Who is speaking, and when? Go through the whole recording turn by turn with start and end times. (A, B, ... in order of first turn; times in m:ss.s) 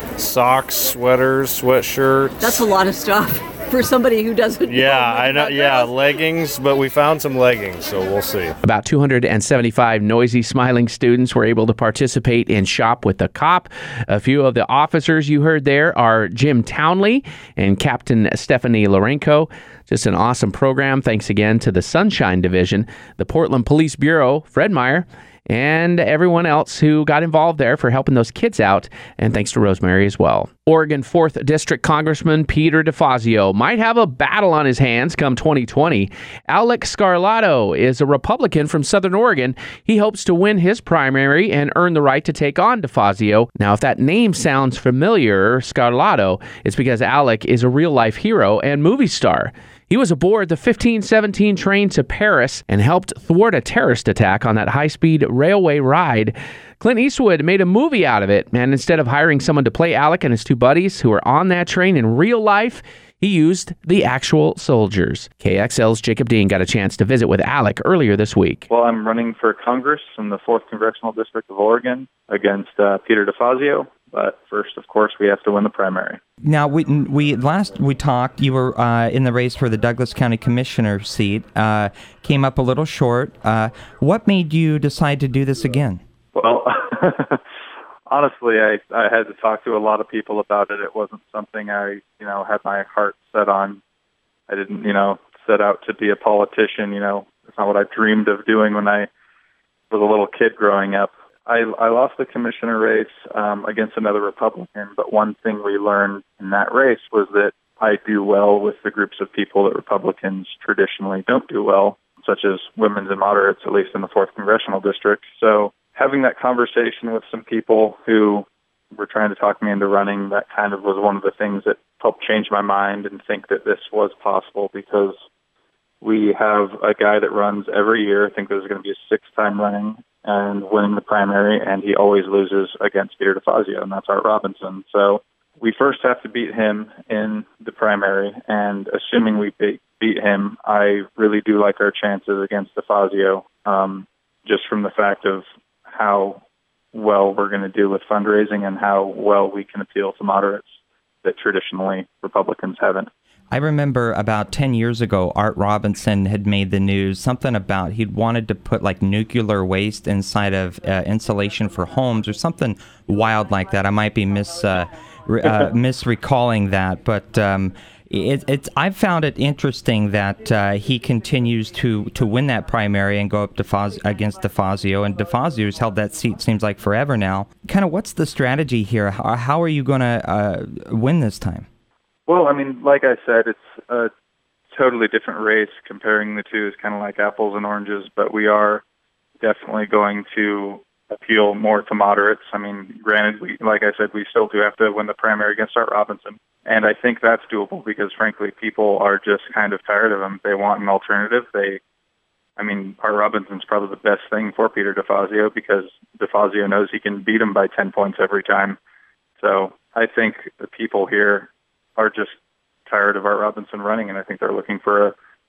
0:00.2-0:02.6 A
0:02.4-0:06.2 B
0:04.6-0:08.5 A
0:08.6-1:08.6 C
1:08.7-1:16.2 D
1:16.4-1:26.0 E
1:26.3-1:27.4 D
1:28.1-1:33.8 D
1:34.5-1:39.1 D
1:39.9-2:05.2 D
2:06.0-2:30.7 D
2:31.2-2:33.1 D
2:33.5-3:01.6 E
3:02.3-3:04.1 D
3:04.7-3:08.8 D
3:09.4-3:21.8 D
3:22.6-3:28.8 D
3:29.4-3:35.1 D